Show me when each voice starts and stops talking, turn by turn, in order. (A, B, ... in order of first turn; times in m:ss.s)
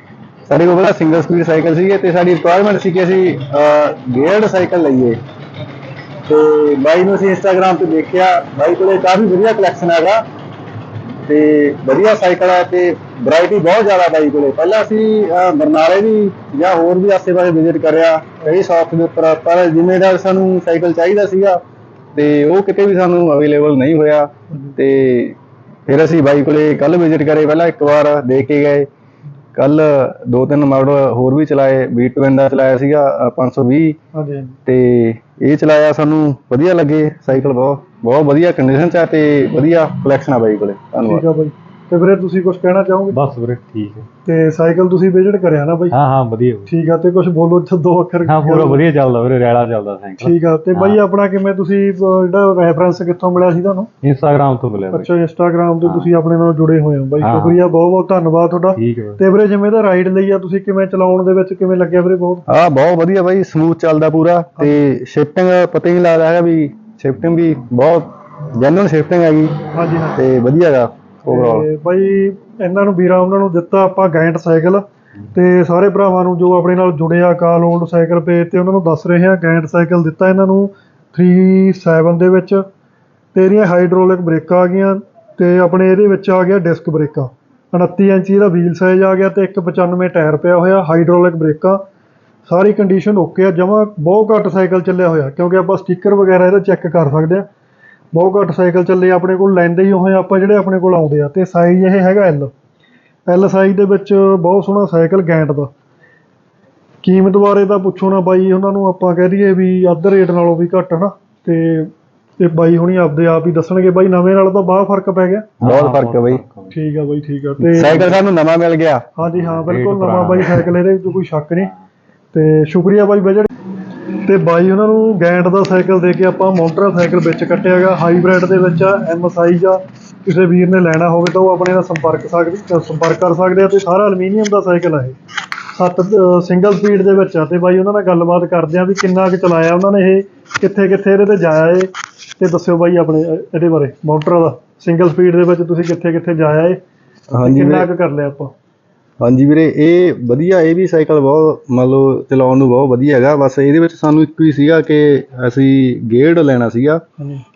0:00.5-0:05.2 A
0:06.3-0:10.2 A
0:11.3-0:21.6 A
0:22.1-0:28.9 A
0:24.5-0:24.8 B
0:29.6-0:34.0 A
0:34.1-0:34.6 B
0:34.7-0:41.2 A
0:41.0-0:43.2 B
0:43.1-0:44.1 C
0:44.2-0:46.0 B
0:45.9-0:46.7 C
0:46.7-0:48.8 B
0:48.3-0:51.0 C
0:50.2-0:53.9 B
0:54.0-0:55.1 C
0:54.9-1:02.5 B
0:55.8-0:56.1 C
0:57.2-0:57.6 C
0:58.8-0:59.2 C
1:02.5-1:09.6 A
1:09.7-1:10.2 B
1:10.2-1:11.7 A
1:11.2-1:22.6 B
1:23.3-1:31.8 B
1:32.5-1:37.4 B
1:38.1-1:42.5 B
1:43.3-1:45.7 B
1:47.0-1:55.5 B
1:55.6-1:56.4 A
1:55.6-1:56.7 C
1:56.7-1:58.2 B
1:57.6-1:59.0 A
1:59.2-2:01.7 B
1:59.4-2:00.7 C
2:02.3-2:03.5 B
2:04.1-2:15.2 B
2:15.7-2:26.8 B
2:27.3-2:27.9 A
2:27.4-2:28.5 B
2:29.2-2:37.0 A